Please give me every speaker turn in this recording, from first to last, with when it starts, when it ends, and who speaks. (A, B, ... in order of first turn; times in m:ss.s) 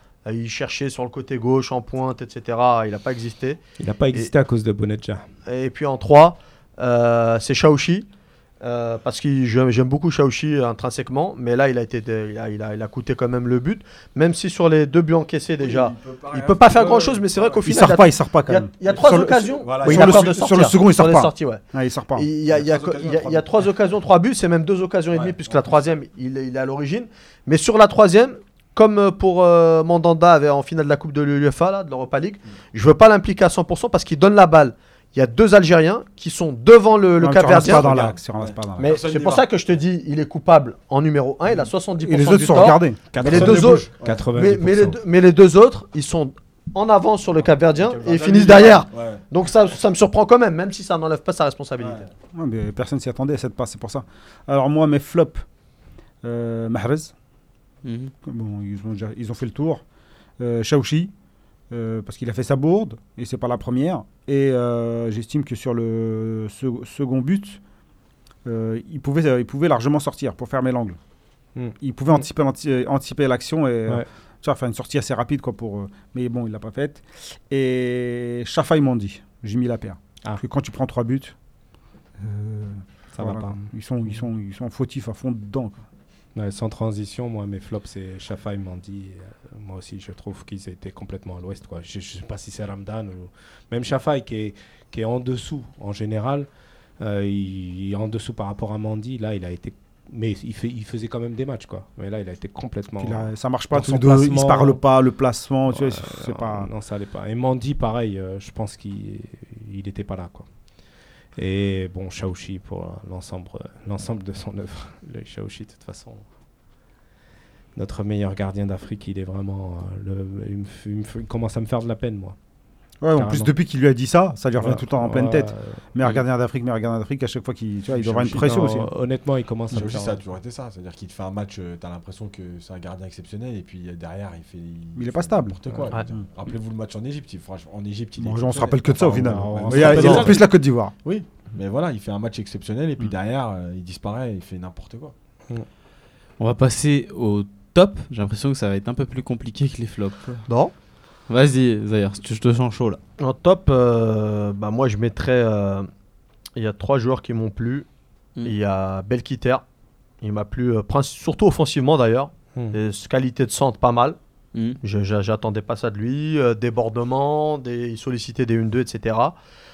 0:00.3-0:03.6 A
0:03.8-0:05.3 B
0:05.5-0:08.1 A
0:08.6-0:21.6 A
0:15.6-0:17.9 C
0:17.6-0:22.3 D
0:18.9-0:20.5 C
0:22.2-0:38.2 A
0:22.5-0:23.5 C
0:25.1-0:25.7 C
0:37.2-0:38.9 D
0:37.8-0:39.4 C
0:38.8-0:52.1 A
0:42.0-0:43.1 D
0:43.1-0:45.0 B
0:43.2-0:44.3 C
0:47.8-0:49.2 C
0:51.8-0:52.1 C
0:52.3-0:55.4 D
0:56.2-0:57.1 D
0:57.8-0:58.1 E
0:58.2-0:59.8 D
1:00.4-1:01.1 D
1:01.7-1:07.6 D
1:08.4-1:11.0 D
1:11.6-1:12.2 B
1:11.8-1:21.4 D
1:22.2-1:25.8 D
1:23.1-1:24.2 B
1:26.4-1:36.5 B
1:37.0-1:44.8 B
1:43.0-1:46.7 D
1:45.7-1:50.5 B
1:51.4-1:56.2 B
1:57.8-2:02.4 B
2:03.0-2:08.9 D
2:03.2-2:03.5 B
2:04.6-2:05.7 B
2:08.2-2:10.2 B
2:09.7-2:20.5 C
2:15.0-2:15.6 D
2:18.2-2:20.9 D
2:19.1-2:20.4 B
2:19.8-2:20.4 A
2:21.0-2:25.1 C
2:26.4-2:30.5 E
2:30.5-2:30.7 A
2:31.3-2:33.0 E
2:33.2-2:35.9 A
2:36.6-2:37.9 A
2:38.4-2:39.6 A
2:40.2-2:44.2 A
2:44.5-2:44.8 E
2:44.8-2:49.4 A